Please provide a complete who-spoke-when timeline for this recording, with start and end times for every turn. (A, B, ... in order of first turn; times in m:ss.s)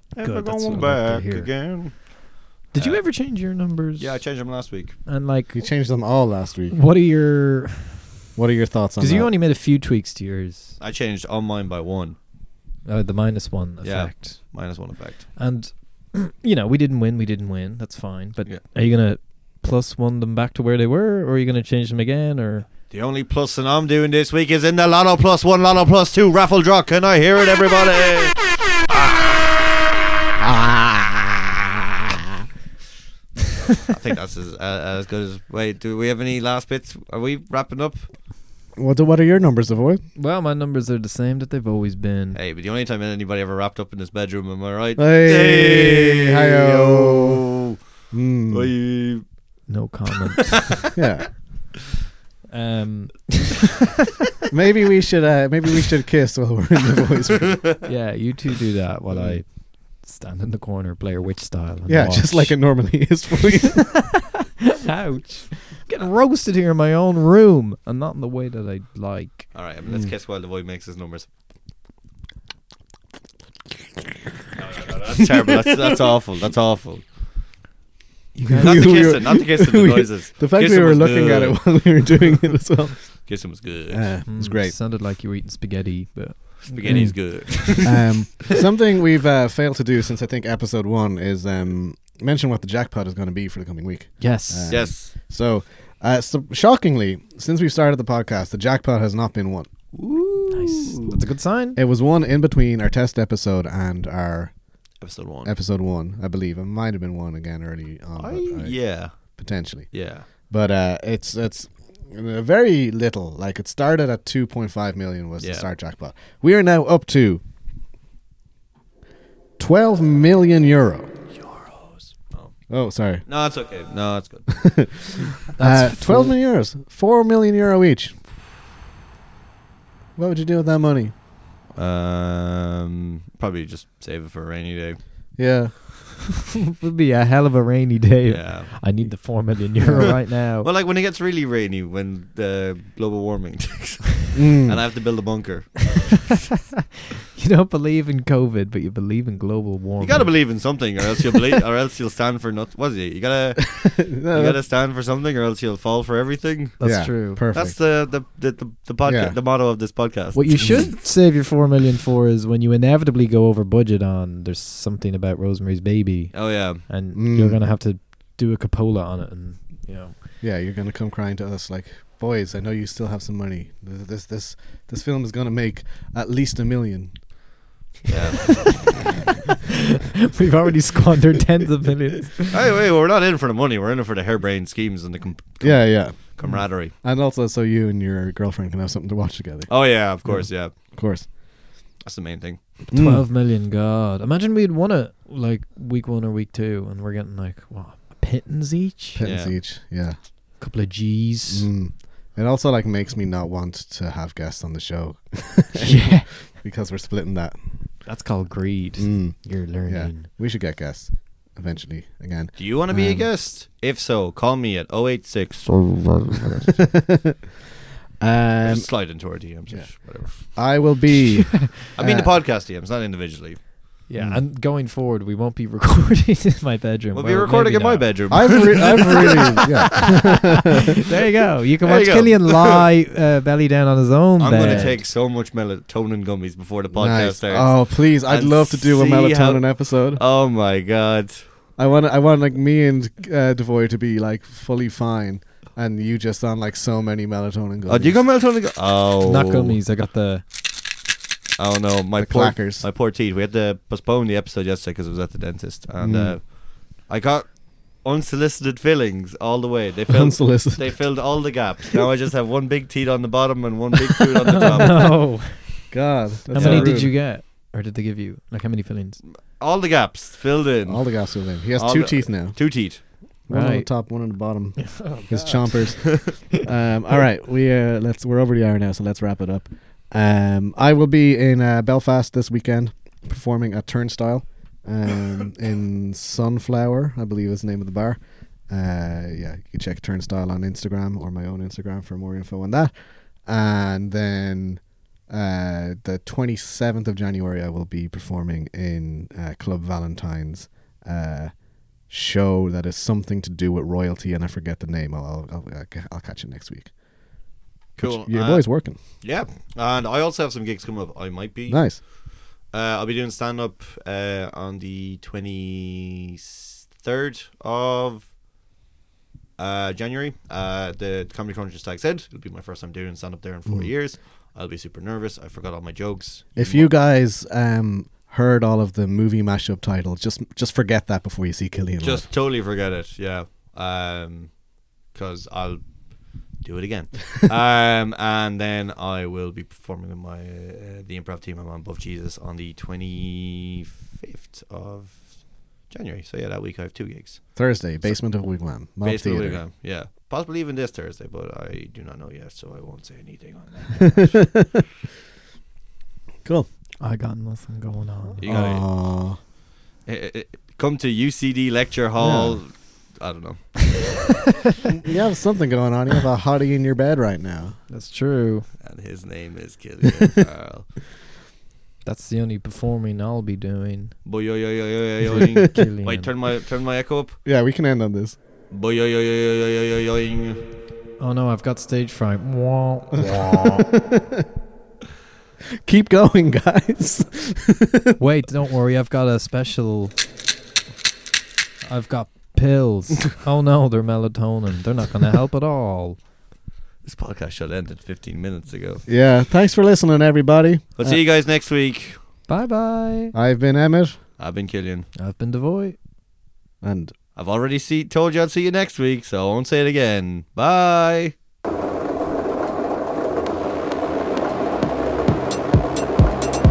0:00.1-0:02.2 A
0:00.2-0:01.5 B
0:02.7-0:04.3 B
0:02.7-0:03.0 A
0:04.0-0:05.0 A
0:05.0-0:05.6 B
0:05.5-0:06.8 C
0:06.7-0:08.0 B
0:08.4-0:09.3 C
0:09.0-0:10.8 B
0:10.8-0:12.2 A
0:12.8-0:14.7 B
0:13.8-0:15.3 A
0:15.4-0:22.7 B
0:22.9-0:29.5 A
0:30.4-0:31.6 C
0:33.8-0:38.1 A
0:38.8-0:40.0 C
0:40.2-0:42.4 B
0:42.3-0:47.8 A
0:45.0-0:47.4 C
0:48.1-0:48.7 C
0:48.5-0:49.7 A
0:49.7-0:50.8 B
0:50.9-0:51.4 C
0:52.5-0:53.7 B
0:54.5-0:57.8 C
0:57.8-1:03.1 B
0:59.1-0:59.4 A
1:01.9-1:04.0 C
1:03.8-1:04.2 B
1:04.8-1:09.5 B
1:09.5-1:11.3 A
1:14.6-1:17.0 A
1:18.3-1:19.1 B
1:18.4-1:24.7 C
1:18.6-1:22.3 A
1:23.2-1:24.1 A
1:24.2-1:27.9 B
1:26.7-1:28.1 A
1:26.9-1:39.7 C
1:34.2-1:34.8 B
1:34.7-1:35.1 A
1:39.9-1:41.2 A
1:40.5-1:41.8 B
1:41.8-1:44.5 C
1:45.0-1:45.5 A
1:45.4-1:57.4 C
1:48.2-1:49.4 A
1:49.9-1:50.2 A
1:55.4-1:55.7 A
1:59.6-2:01.1 C
2:01.4-2:02.5 A
2:02.7-2:03.2 C
2:03.3-2:04.7 A
2:04.5-2:08.2 C
2:05.6-2:06.3 B
2:10.2-2:11.1 C
2:11.7-2:15.0 A
2:15.4-2:15.8 C
2:16.7-2:20.7 B
2:18.3-2:19.0 A
2:19.8-2:20.2 C
2:20.0-2:26.5 A
2:24.3-2:24.8 C
2:26.6-2:26.8 B
2:27.3-2:30.5 B
2:30.0-2:36.8 A
2:33.6-2:34.6 C
2:36.8-2:37.4 B
2:36.8-2:37.8 C
2:37.5-2:40.7 A
2:39.0-2:39.4 C
2:40.3-2:50.1 B
2:46.3-2:46.8 A
2:47.1-2:47.6 C
2:50.4-2:57.2 C
2:58.1-2:58.9 A
3:00.2-3:02.6 B
3:02.5-3:06.9 A
3:05.6-3:11.3 C
3:09.7-3:11.4 A
3:12.0-3:12.8 A
3:12.9-3:13.2 C
3:12.9-3:19.2 B
3:19.2-3:20.2 C
3:19.2-3:19.6 A
3:20.6-3:21.7 B
3:21.5-3:27.6 C
3:25.7-3:26.3 B
3:28.0-3:30.3 B
3:29.0-3:33.3 C
3:32.6-3:36.8 A
3:36.7-3:37.4 C
3:38.2-3:42.3 C
3:38.6-3:40.8 A
3:41.9-3:43.6 A
3:44.1-3:49.4 B
3:44.2-3:44.4 C
3:47.1-3:50.0 A
3:48.3-3:50.8 C
3:50.1-3:55.0 B
3:51.8-3:52.8 A
3:54.4-4:01.5 A
3:54.5-3:55.0 C
3:56.9-4:00.2 C
4:01.8-4:08.2 C
4:07.9-4:09.8 A
4:09.2-4:10.4 B
4:11.6-4:25.2 A
4:12.2-4:12.8 C
4:16.0-4:16.4 C
4:20.1-4:21.3 C
4:24.6-4:25.9 B
4:25.9-4:27.2 C
4:26.5-4:29.2 B
4:26.5-4:27.0 A
4:29.2-4:33.0 A
4:30.8-5:01.5 C
4:33.5-4:36.4 B
5:02.1-5:06.9 C
5:08.0-5:09.0 C
5:08.0-5:18.3 A
5:11.7-5:12.0 C
5:19.6-5:26.9 A
5:26.6-5:32.2 C
5:32.0-5:34.6 A
5:35.1-5:48.5 A
5:47.6-5:49.6 C
5:49.0-5:54.7 A
5:57.0-5:58.4 B
5:58.4-5:59.5 A
5:58.4-5:59.4 C
6:00.0-6:04.2 A
6:02.2-6:02.6 C
6:05.0-6:07.8 C
6:07.9-6:08.7 B
6:08.8-6:10.9 A
6:12.0-6:14.2 B
6:14.2-6:17.4 A
6:15.3-6:15.8 C
6:15.3-6:16.3 B
6:17.4-6:18.4 C
6:18.7-6:20.6 A
6:21.2-6:23.8 B
6:23.3-6:24.4 C
6:25.7-6:28.2 C
6:28.2-6:30.2 B
6:31.8-6:36.2 B
6:37.0-6:39.0 A
6:39.1-6:41.2 C
6:41.0-6:42.2 A
6:42.5-6:43.3 B
6:43.3-6:44.2 C
6:44.4-6:45.1 A
6:45.1-6:46.0 B
6:46.8-6:47.1 C
6:47.3-6:51.3 A